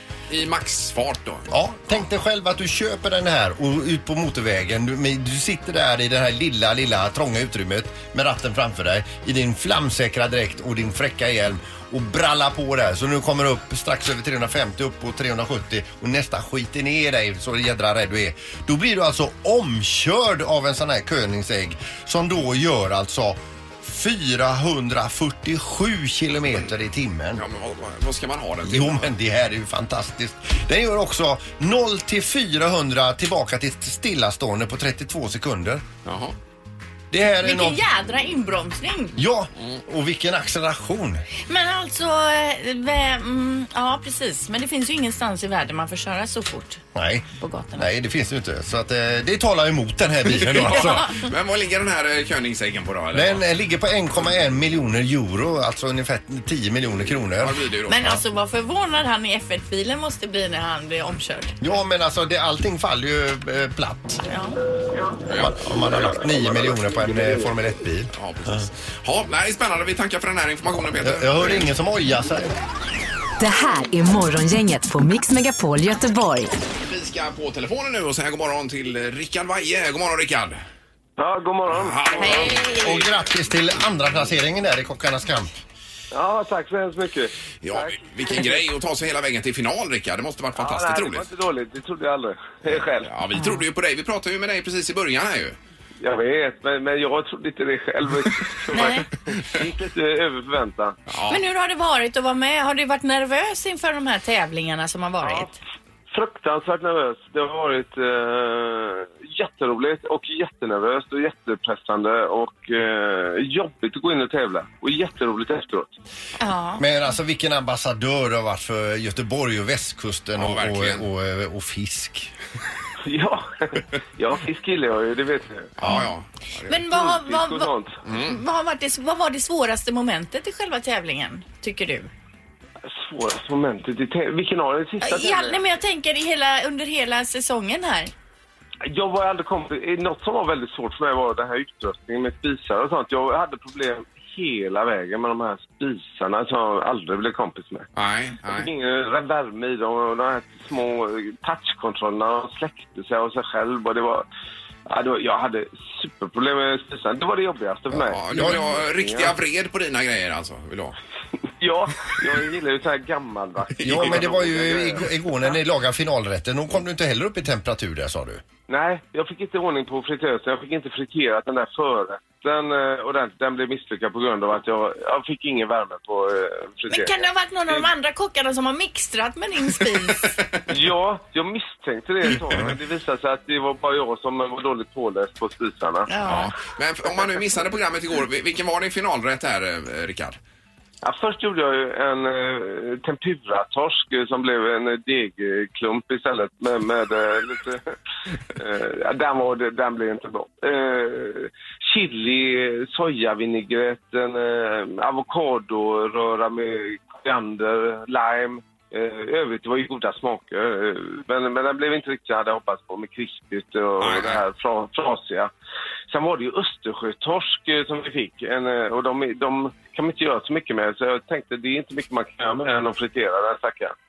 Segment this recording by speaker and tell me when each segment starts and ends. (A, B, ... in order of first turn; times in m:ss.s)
0:00.3-0:01.5 A
0:01.5-0:27.4 B
0:27.4-0:29.1 A
0:28.6-0:35.8 B
0:36.0-0:36.3 A
0:37.1-0:37.8 B
0:37.4-0:39.2 C
0:39.2-0:41.2 B
0:41.5-0:46.8 C
0:46.9-0:51.2 B
0:47.4-0:47.9 C
0:50.3-0:53.4 A
0:50.7-0:51.3 C
0:53.1-0:58.2 B
0:57.4-0:58.1 A
0:57.9-1:01.5 C
1:01.6-1:04.2 B
1:04.2-1:04.6 C
1:05.3-1:05.6 A
1:05.4-1:08.1 B
1:08.1-1:11.7 A
1:11.0-1:12.5 B
1:13.4-1:16.5 D
1:16.8-1:20.6 A
1:21.2-1:22.5 E
1:21.7-1:23.1 A
1:22.2-1:23.0 C
1:22.7-1:25.5 B
1:26.1-1:28.6 E
1:27.6-1:31.3 A
1:30.6-1:33.1 E
1:32.6-1:35.6 A
1:33.3-1:33.6 C
1:36.0-1:41.0 E
1:38.7-1:39.0 C
1:41.1-1:41.4 A
1:41.3-1:45.6 C
1:45.2-1:45.5 E
1:46.1-1:55.9 E
1:56.4-1:56.8 C
1:56.8-2:02.3 B
2:00.4-2:01.0 A
2:03.0-2:05.7 E
2:05.8-2:06.8 A
2:06.6-2:12.1 C
2:06.9-2:08.0 E
2:08.0-2:08.4 A
2:12.8-2:15.6 E
2:15.0-2:18.1 C
2:18.8-2:27.9 E
2:27.9-2:28.7 A
2:28.5-2:34.2 E
2:34.9-2:39.3 E
2:38.1-2:41.0 A
2:38.3-2:38.6 B
2:41.6-2:45.0 E
2:43.7-2:44.2 A
2:43.8-2:48.4 B
2:48.7-2:57.8 E
2:56.9-3:00.4 C
3:00.7-3:06.1 E
3:06.1-3:06.5 C
3:06.2-3:10.4 A
3:11.0-3:17.9 E
3:18.5-3:35.5 E
3:34.0-3:34.4 A
3:36.1-3:44.0 E